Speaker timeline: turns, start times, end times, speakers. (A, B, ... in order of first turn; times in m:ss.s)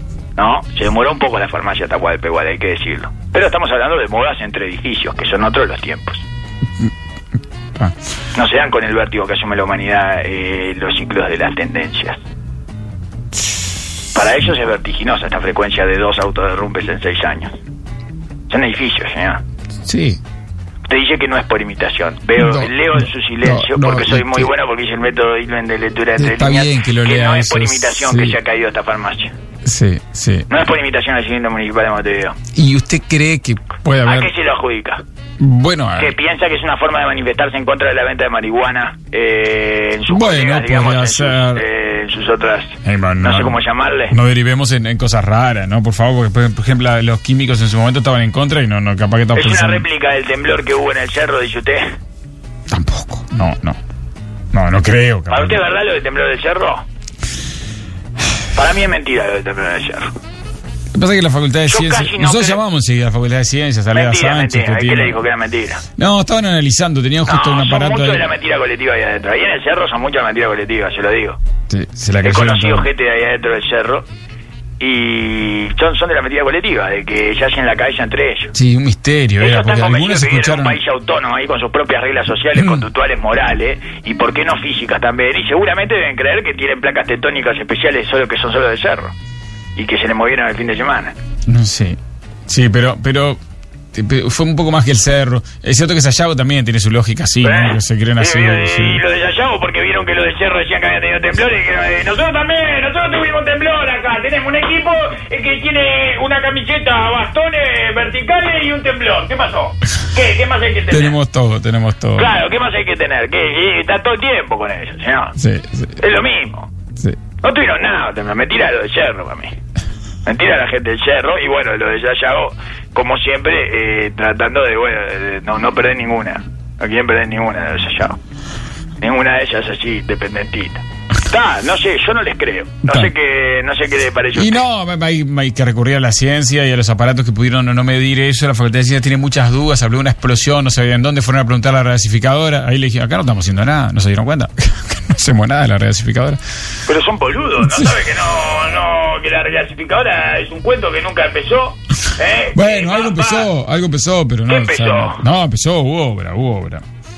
0:00.4-0:06.2 A
0:08.3-0:12.2 A
0:14.1-0:17.6 A
0:18.5-0:19.4 A
0:19.8-0:20.2 B
0:20.9-0:29.3 A
0:22.4-0:24.5 B
0:26.2-0:28.4 B
0:29.6-0:30.5 B
0:30.5-0:32.4 A
0:32.5-0:34.3 B
0:34.0-0:35.0 A
0:35.4-0:36.1 B
0:36.0-0:44.2 A
0:40.1-0:41.6 B
0:42.8-0:49.8 B
0:49.3-0:52.0 A
0:52.7-0:53.8 B
0:54.5-0:55.6 B
0:55.3-0:56.8 A
0:58.5-1:00.1 A
1:00.9-1:05.2 B
1:01.7-1:02.6 A
1:03.9-1:05.8 A
1:06.0-1:08.3 B
1:07.2-1:11.4 A
1:11.7-1:12.9 B
1:12.2-1:14.0 A
1:14.8-1:18.5 A
1:18.5-1:20.8 B
1:19.4-1:29.1 A
1:22.6-1:22.8 B
1:29.8-1:31.1 A
1:31.5-1:33.4 B
1:33.9-1:39.0 B
1:37.4-1:51.2 A
1:50.9-1:52.3 B
1:52.2-1:55.4 A
1:55.4-1:56.0 B
1:56.0-1:56.7 A
1:57.4-1:59.6 A
2:00.2-2:08.2 A
2:09.0-2:14.6 A
2:12.8-2:13.1 B
2:14.3-2:26.4 B
2:26.9-2:33.5 A
2:32.5-2:36.8 B
2:34.5-2:35.2 A